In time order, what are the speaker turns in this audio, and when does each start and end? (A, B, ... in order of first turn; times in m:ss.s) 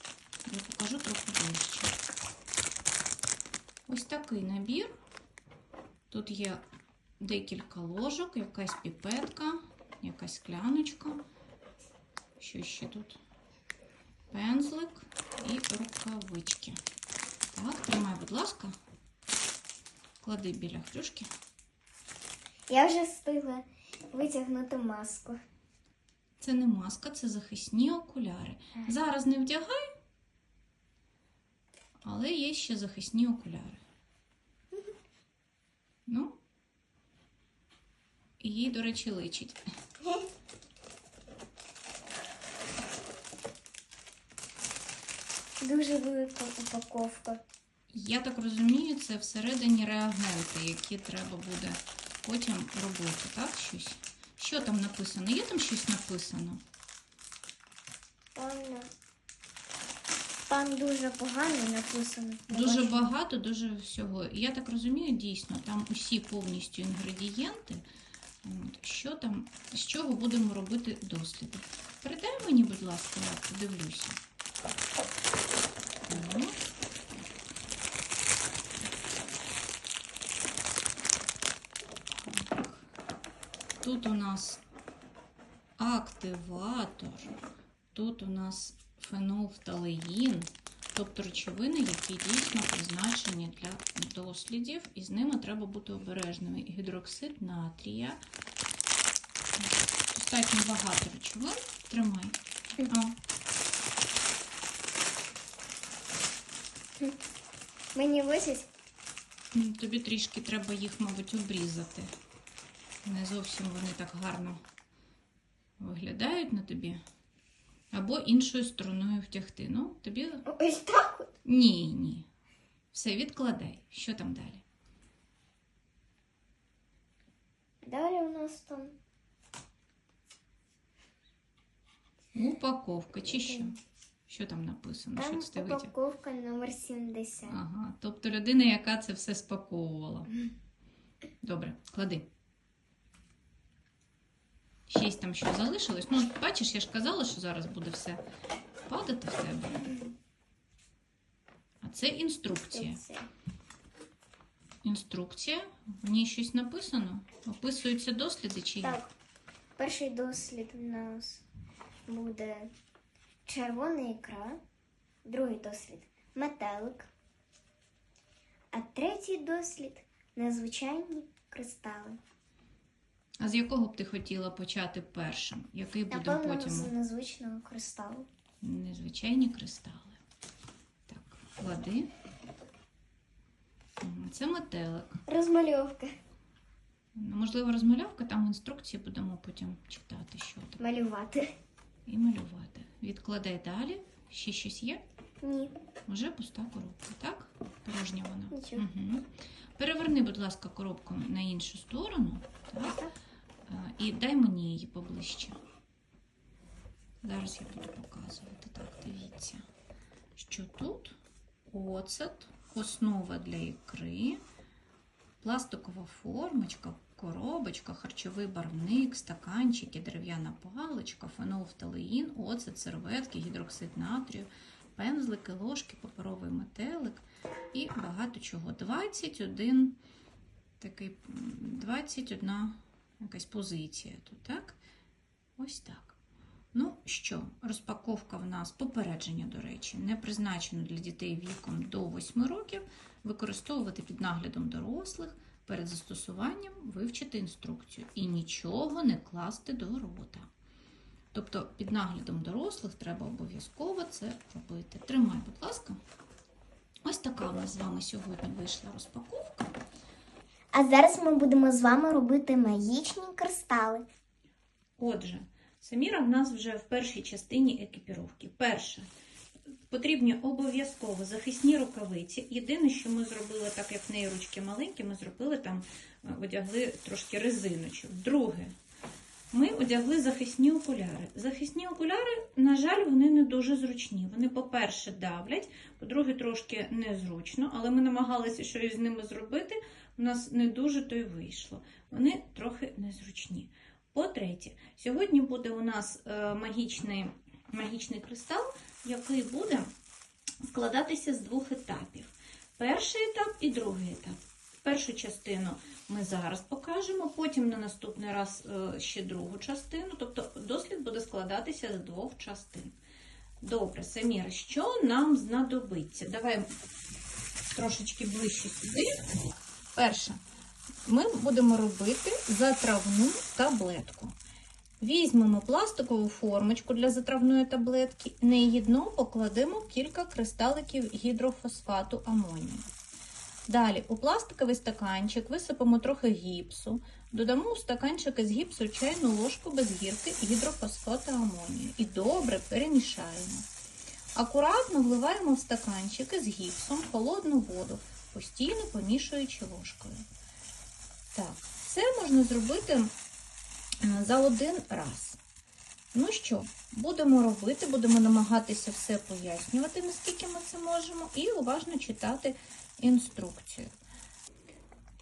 0:00.4-0:02.0 A
0:03.9-0:04.9 A
0:06.1-0:06.6 A
0:07.2-0:11.2 A
0:12.4-0:13.2 A
0:14.3-0:16.8 A
0:17.5-0:18.7 A
0:20.2-0:21.3 A
0:22.7-0:25.4 B
0:26.4-0:29.9 A
0:32.0-0:33.8 A
0:36.0-0:36.4 A
0:38.4-0:39.6 A
0:45.6-0:47.4 B
0:47.9-0:56.6 A
0:58.4-0:58.9 B
1:00.5-1:03.1 B
1:02.5-1:07.8 A
1:08.4-1:14.2 A
1:16.0-1:16.6 A
1:22.2-1:22.9 A
1:23.8-1:24.6 A
1:25.8-1:27.3 A
1:27.9-1:38.2 A
1:39.6-1:43.2 A
1:47.9-1:48.7 B
1:49.5-1:52.1 A
1:53.0-1:54.6 A
1:55.8-1:57.0 A
1:57.9-2:00.4 A
2:00.4-2:01.3 B
2:01.4-2:02.3 A
2:02.9-2:04.6 A
2:07.8-2:09.0 B
2:12.3-2:13.8 A
2:14.3-2:15.9 A
2:15.2-2:17.6 B
2:17.5-2:20.3 A
2:21.4-2:22.3 A
2:24.9-2:28.2 A
2:28.9-2:29.9 A
2:31.8-2:33.0 A
2:32.7-2:33.3 B
2:34.8-2:39.0 A
2:38.8-2:39.1 B
2:39.8-2:41.4 B
2:42.1-2:42.7 B
2:43.4-2:44.6 B
2:45.2-2:47.1 B
2:48.7-2:52.2 B
2:53.4-2:56.9 A
2:56.1-2:58.3 B
2:58.6-3:00.2 A
3:01.1-3:02.1 A
3:04.0-3:05.2 A
3:05.3-3:06.1 B
3:07.1-3:10.8 A
3:10.8-3:11.5 B
3:12.0-3:15.0 A
3:15.4-3:15.7 B
3:16.1-3:23.0 A
3:18.5-3:18.9 B
3:22.8-3:23.1 B
3:23.6-3:25.6 A
3:27.2-3:29.6 A
3:30.4-3:31.2 A
3:31.7-3:34.4 A
3:35.4-3:50.0 A
3:50.8-3:54.8 A
3:55.6-3:56.2 A
3:56.7-4:10.5 A
4:11.3-4:16.0 A
4:17.0-4:19.7 A
4:20.7-4:24.0 B
4:25.0-4:29.1 A
4:29.9-4:38.7 A
4:39.5-4:59.9 A
5:00.6-5:12.9 A
5:13.6-5:16.7 A
5:17.7-5:19.2 A
5:19.9-5:20.4 A
5:21.0-5:24.3 A
5:25.0-5:32.9 A
5:33.7-5:43.6 A
5:44.4-5:50.2 A
5:51.3-5:53.1 A
5:54.0-5:55.4 A
5:56.1-6:03.9 A